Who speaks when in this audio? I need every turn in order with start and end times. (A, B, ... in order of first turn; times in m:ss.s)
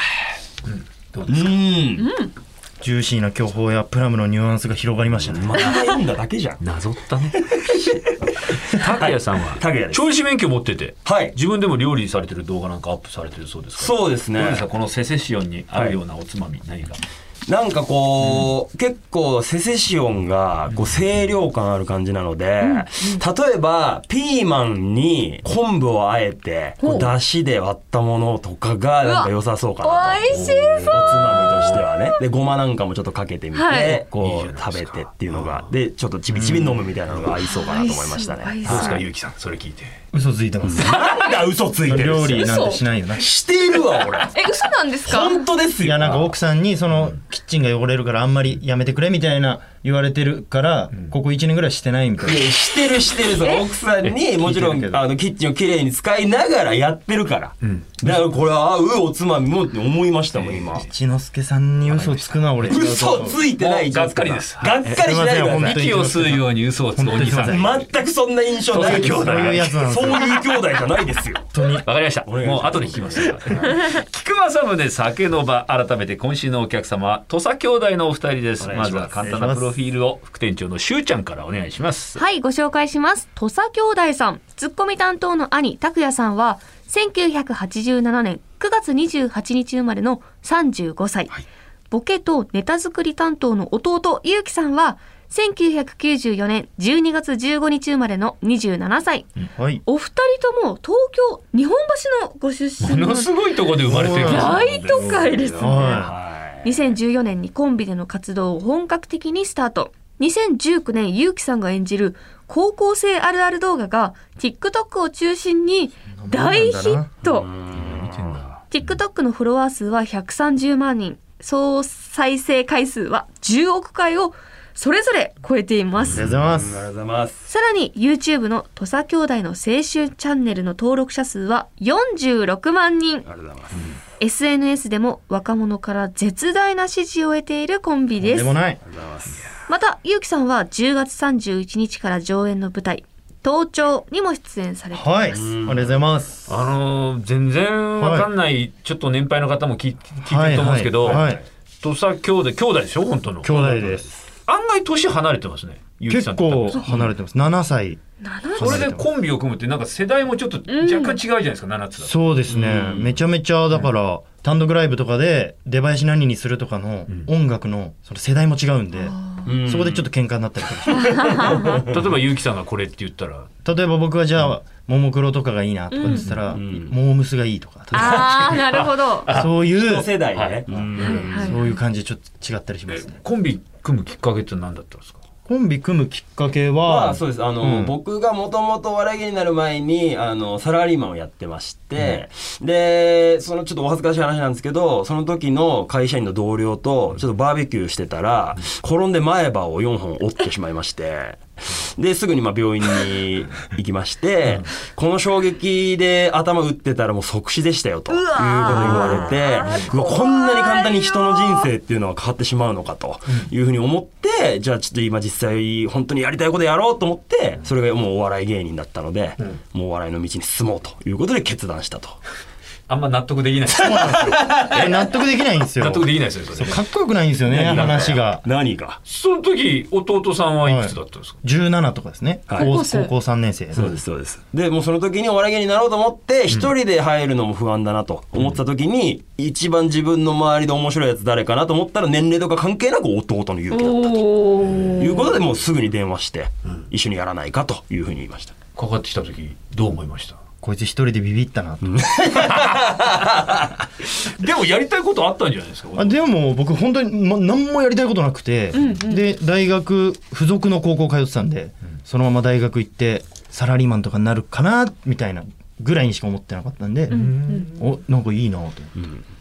0:00.7-0:01.5 A
0:01.3-0:02.1 B
0:02.0-0:02.3 C
0:02.8-0:05.6 D
0:05.3-0:06.6 B
0:05.6-0:06.0 C
0:06.6-0:17.0 A
0:07.3-0:08.0 B
0:08.8-0:10.0 B
0:11.0-0:11.3 B
0:13.8-0:14.6 B
0:15.7-0:16.0 B
0:17.5-0:39.0 B
0:18.2-0:18.5 A
0:22.6-0:23.2 C
0:26.8-0:27.1 C
0:29.0-0:32.2 C
0:30.3-0:31.8 A
0:33.5-0:34.0 C
0:34.1-0:35.7 A
0:36.3-0:36.9 D
0:37.4-0:39.0 C
0:38.6-0:39.9 A
0:40.1-0:41.0 D
0:40.6-0:42.5 B
0:40.8-0:41.4 C
0:41.8-0:43.3 D
0:42.4-0:42.8 C
0:43.2-0:44.4 B
0:44.1-0:45.4 C
0:45.0-0:46.3 B
0:45.8-0:52.5 D
0:52.2-1:00.9 B
0:53.3-0:53.7 C
0:54.4-0:55.0 D
0:57.6-0:58.2 A
1:00.3-1:00.8 A
1:00.7-1:03.4 D
1:01.8-1:05.0 A
1:02.7-1:05.8 B
1:04.8-1:07.8 D
1:05.6-1:07.8 A
1:07.4-1:11.5 B
1:08.7-1:09.9 A
1:08.8-1:10.4 D
1:11.5-1:11.8 D
1:11.8-1:22.2 A
1:12.2-1:13.4 B
1:18.6-1:19.4 B
1:19.2-1:19.7 D
1:22.2-1:31.3 C
1:31.9-1:57.5 C
1:39.6-1:39.8 D
1:42.8-1:44.6 A
1:43.9-1:46.2 D
1:44.5-1:46.8 B
1:56.1-1:57.1 D
1:57.3-1:58.1 B
1:57.7-1:58.9 A
1:58.7-2:06.3 C
2:06.1-2:06.8 D
2:06.4-2:07.5 B
2:07.5-2:13.2 C
2:13.2-2:13.9 B
2:14.2-2:18.6 C
2:18.2-2:18.8 D
2:18.8-2:19.5 B
2:19.7-2:25.5 C
2:24.9-2:26.6 D
2:25.3-2:26.0 B
2:26.5-2:31.2 A
2:28.0-2:28.3 D
2:30.2-2:31.4 D
2:31.8-2:37.1 A
2:33.4-2:34.1 D
2:36.0-2:38.0 D
2:38.2-2:38.8 C
2:38.5-2:39.1 D
2:38.6-2:42.1 A
2:40.7-2:41.2 C
2:42.0-2:51.6 D
2:42.5-2:43.1 B
2:49.2-2:49.5 C
2:49.4-2:50.1 B
2:51.0-2:51.7 C
2:51.4-2:52.0 B
2:51.6-2:53.5 A
2:53.6-2:58.8 D
2:55.9-2:56.4 C
2:56.0-2:56.4 A
2:56.5-2:57.0 B
2:57.9-2:59.3 C
2:58.7-2:59.5 A
2:59.3-3:00.1 D
2:59.7-3:01.5 B
3:00.3-3:01.4 A
3:01.0-3:01.6 C
3:01.0-3:03.2 D
3:02.9-3:05.2 A
3:05.4-3:07.9 D
3:06.8-3:42.2 B
3:28.1-3:31.7 C
3:28.7-3:29.0 A
3:42.9-3:45.0 A
3:43.7-3:48.4 D
3:45.8-3:46.8 A
3:47.5-3:49.0 B
3:47.6-3:48.3 A
3:49.0-3:51.4 A
3:50.6-3:54.0 D
3:52.5-3:52.7 B
3:52.5-3:53.1 C
3:53.7-4:08.5 B
4:03.7-4:05.4 C
4:08.8-4:10.4 A
4:10.6-4:12.0 D
4:11.8-4:13.6 B
4:12.5-4:13.2 A
4:14.1-4:16.2 A
4:16.0-4:28.9 D
4:18.8-4:19.2 C
4:27.1-4:27.7 C
4:27.1-4:27.7 A